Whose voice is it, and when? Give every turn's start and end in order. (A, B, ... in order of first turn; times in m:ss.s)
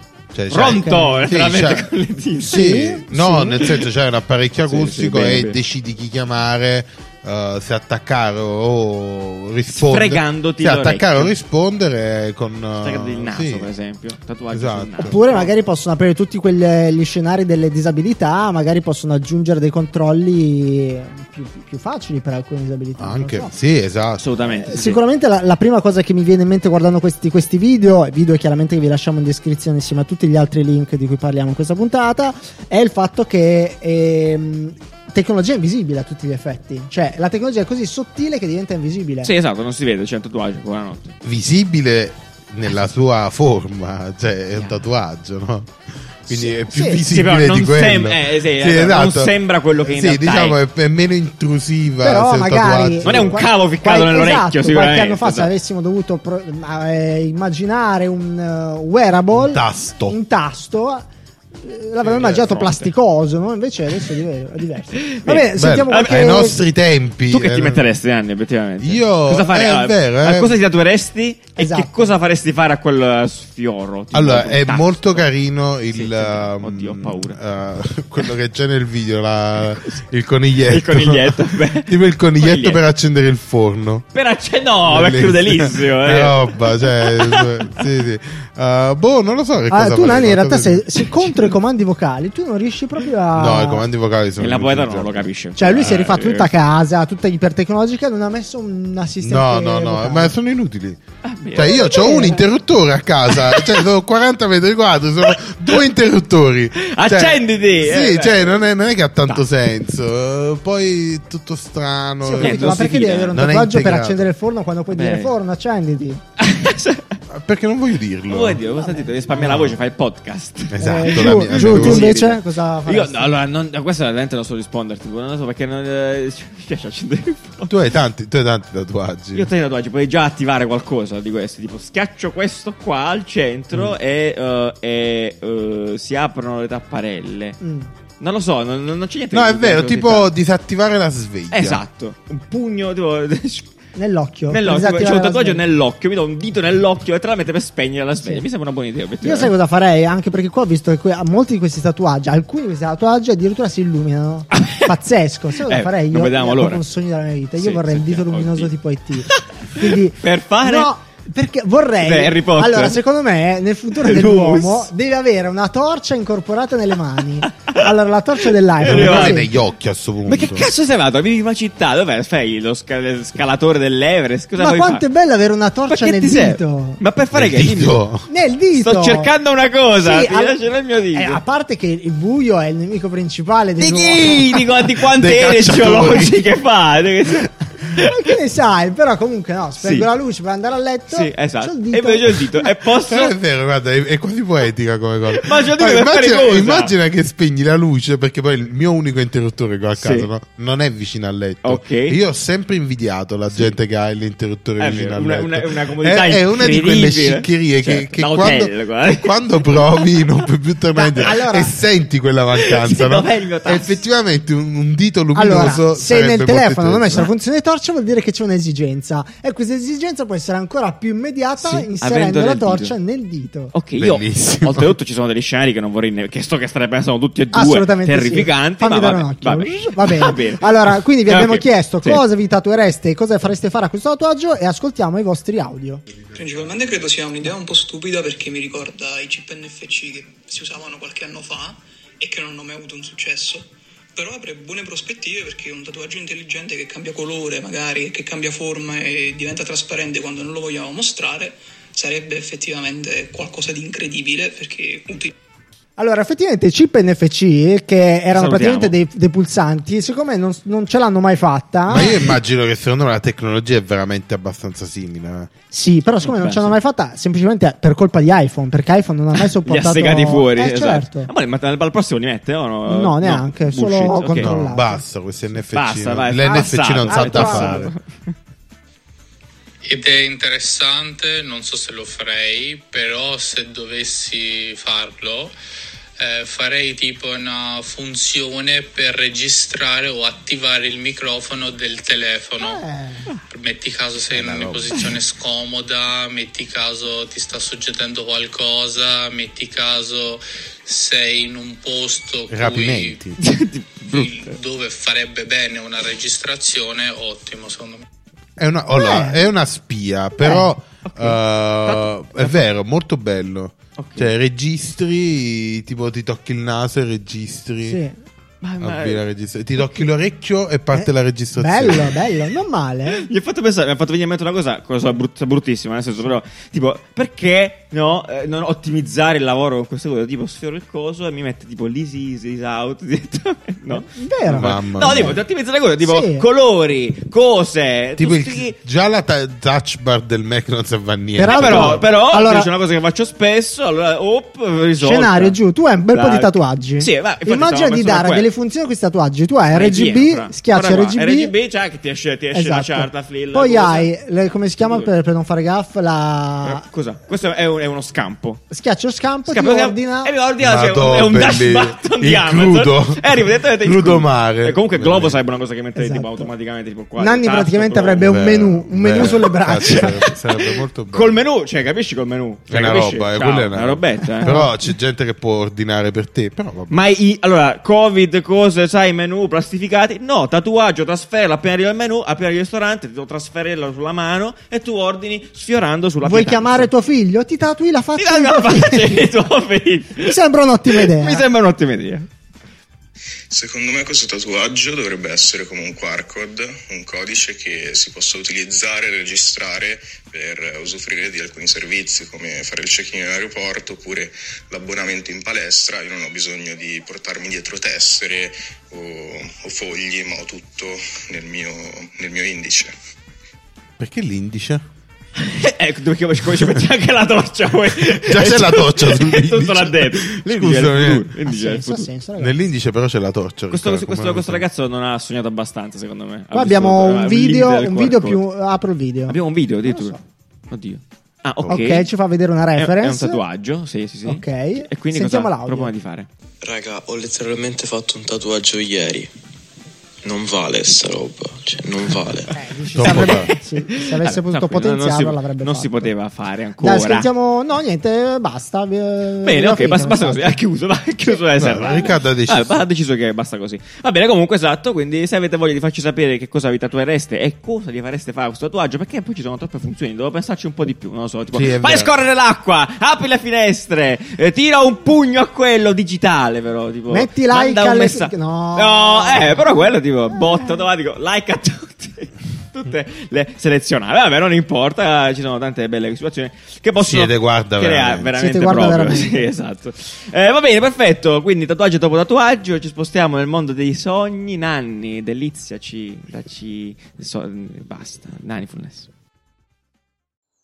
0:00.3-0:01.9 A
0:00.5-0:03.0 B
0:00.7-0:01.3 C
0:02.4-0:13.7 A
0:02.5-0:03.7 C
0:04.6-0:05.6 B
0:09.7-0:11.3 B
0:12.8-0:15.5 B
0:14.5-0:15.2 A
0:15.0-0:23.5 C
0:23.0-0:24.3 A
0:24.2-0:25.0 B
0:24.6-0:39.3 C
0:39.2-0:41.2 B
0:41.2-0:53.4 A
0:44.6-0:44.8 B
0:46.3-0:47.0 C
0:47.0-0:50.6 B
0:52.0-1:01.1 C
0:53.0-0:55.5 B
0:59.3-1:00.2 A
1:01.6-1:06.6 C
1:02.0-1:02.9 B
1:05.0-1:06.4 B
1:05.6-1:07.8 A
1:07.3-1:15.3 B
1:08.8-1:10.6 A
1:11.6-1:12.2 C
1:14.1-1:24.1 A
1:15.9-1:17.4 B
1:20.7-1:22.8 B
1:24.1-1:27.8 B
1:24.9-1:30.9 A
1:29.7-1:33.8 C
1:33.3-1:35.3 A
1:34.4-1:36.5 B
1:35.6-1:40.3 C
1:39.2-1:41.0 A
1:41.2-1:42.4 B
1:41.5-1:54.3 A
1:41.9-1:42.4 C
1:43.3-1:43.8 B
1:46.8-1:48.7 B
1:52.2-1:56.2 C
1:52.4-1:53.4 B
1:54.9-1:55.3 B
1:56.4-1:57.2 B
1:57.3-1:58.6 A
1:58.3-2:07.7 B
1:58.7-1:59.1 C
1:59.4-1:59.8 A
2:00.7-2:02.1 A
2:00.8-2:03.4 C
2:07.6-2:09.5 A
2:09.3-2:17.6 B
2:17.6-2:17.9 C
2:18.2-2:20.3 B
2:19.3-2:21.8 A
2:21.5-2:23.7 B
2:24.0-2:25.6 C
2:24.5-2:29.5 B
2:29.2-2:49.5 C
2:34.5-2:34.9 B
2:35.7-2:36.8 B
2:37.6-2:38.7 B
2:39.2-2:40.9 B
2:42.0-2:43.0 B
2:44.0-2:44.9 B
2:48.8-2:49.4 B
2:48.8-2:50.7 A
2:50.3-2:55.0 B
2:54.6-2:57.0 C
2:55.9-2:58.0 B
2:57.3-2:58.3 A
2:58.3-2:59.3 C
2:58.8-3:01.4 B
3:00.0-3:00.6 C
3:01.1-3:04.7 C
3:03.8-3:08.1 B
3:05.0-3:06.4 A
3:08.0-3:12.5 C
3:09.8-3:10.1 B
3:11.1-3:13.4 B
3:13.1-3:37.3 A
3:15.3-3:16.9 B
3:20.0-3:20.3 B
3:21.6-3:22.2 B
3:23.5-3:23.8 B
3:24.8-3:30.2 B
3:31.0-3:31.7 C
3:32.6-3:34.0 B
3:35.4-3:43.7 C
3:41.6-3:43.0 B
3:43.7-3:52.2 B
3:43.9-3:45.0 A
3:47.5-3:56.0 C
3:56.3-4:15.3 D
4:16.0-4:22.3 C
4:18.3-4:19.0 B
4:21.9-4:25.5 A
4:25.7-4:31.3 C
4:26.2-4:26.8 B
4:29.4-4:34.5 B
4:32.9-4:35.0 C
4:34.4-4:37.9 A
4:35.7-4:38.3 B
4:36.5-4:37.9 C
4:39.8-4:45.5 E
4:46.2-4:52.8 E
4:52.6-4:53.3 C
4:53.5-5:03.2 E
4:54.3-4:55.0 A
5:02.5-5:03.4 A
5:03.4-5:04.5 B
5:04.1-5:08.0 E
5:08.6-5:18.0 A
5:09.0-5:09.4 C
5:10.4-5:10.7 C
5:11.0-5:12.6 B
5:14.0-5:14.3 B
5:17.9-5:18.2 C
5:18.6-5:19.2 B
5:18.8-5:22.2 A
5:20.9-5:23.2 C
5:23.2-5:38.8 B
5:34.0-5:35.4 C
5:34.5-5:35.4 A
5:36.0-5:36.4 C
5:38.2-5:42.0 A
5:41.4-5:42.7 C
5:41.5-5:45.6 B
5:45.0-5:51.5 C
5:46.1-5:48.5 B
5:49.7-5:54.1 B
5:52.5-5:56.8 C
5:54.8-5:55.1 B
5:56.6-5:58.6 B
5:58.7-6:00.3 C
5:59.5-6:08.3 B
6:00.6-6:05.4 A
6:06.0-6:06.5 C
6:07.2-6:10.2 C
6:08.2-6:11.4 A
6:09.1-6:14.5 B
6:12.7-6:17.0 A
6:16.9-6:26.9 B
6:26.2-6:29.3 C
6:28.2-6:30.4 B
6:30.2-6:31.4 C
6:30.9-6:32.3 B
6:33.5-6:52.9 F
6:54.0-6:54.8 A
6:55.4-7:02.1 B
6:58.0-7:01.3 A
7:01.4-7:02.6 C
7:02.4-7:04.7 A
7:03.7-7:08.4 B
7:06.5-7:10.2 C
7:09.3-7:10.2 B
7:10.7-7:12.1 B
7:11.7-7:13.4 C
7:12.8-7:16.3 B
7:14.3-7:15.9 C
7:16.6-7:19.3 G
7:20.2-7:22.5 G
7:22.5-7:26.1 C
7:22.9-7:23.5 A
7:23.0-7:27.3 B
7:26.8-7:30.6 C
7:29.4-8:09.1 B
7:31.2-7:32.1 C
7:31.6-7:32.8 A
7:41.5-7:42.1 A
7:47.1-7:49.7 C
7:57.0-7:58.3 A
7:58.4-7:59.5 C